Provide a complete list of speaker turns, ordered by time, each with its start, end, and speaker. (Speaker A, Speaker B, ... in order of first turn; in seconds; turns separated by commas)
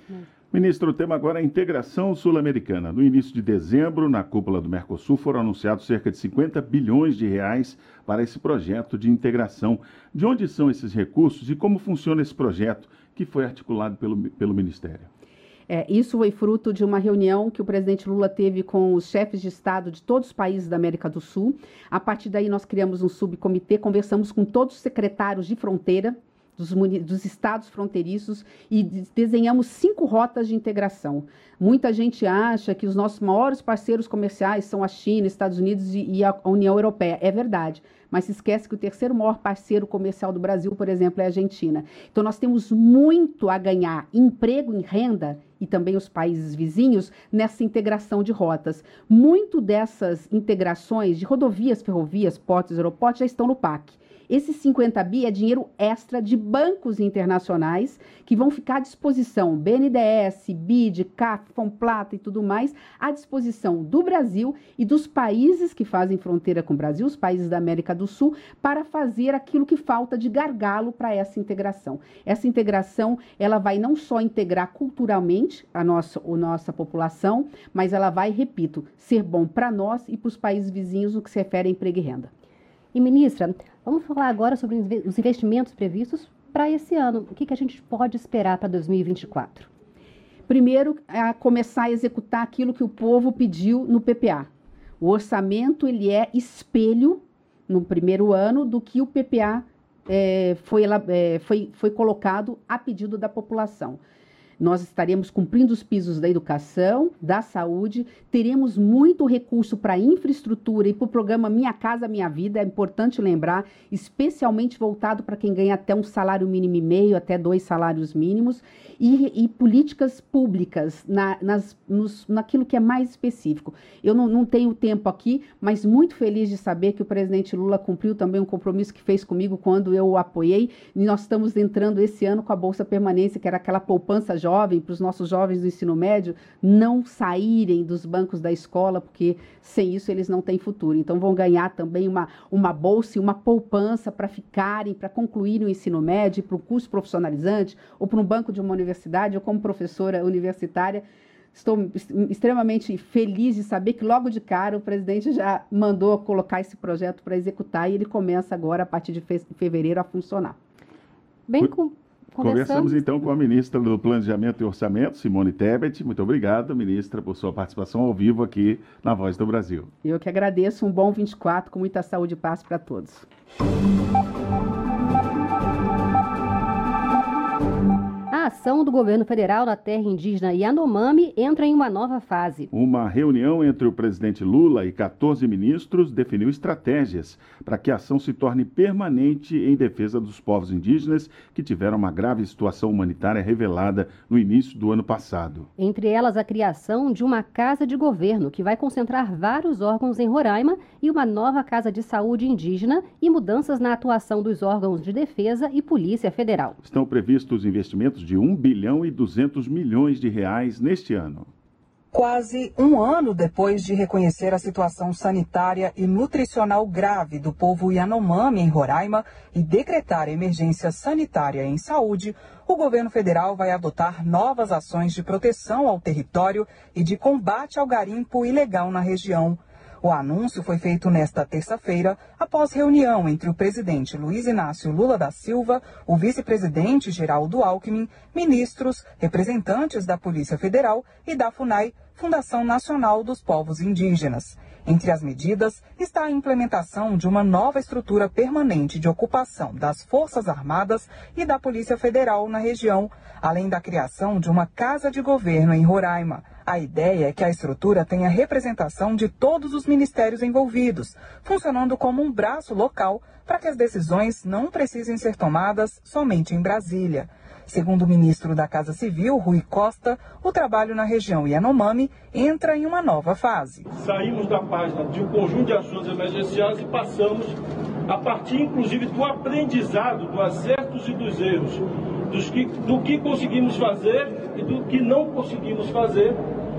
Speaker A: 0.5-15.1, Speaker B: 15.7-82.3, Speaker C: 82.9-89.7, Speaker B: 90.5-94.5, Speaker B: 95.0-104.0, Speaker B: 104.6-160.6, Speaker C: 161.5-163.0, Speaker A: 162.4-169.9, Speaker B: 170.0-173.2, Speaker C: 178.3-182.7, Speaker A: 182.7-195.7, Speaker C: 195.8-206.8, Speaker A: 206.8-211.5, Speaker D: 212.1-273.9, Speaker E: 273.9-277.6, Speaker E: 278.1-286.4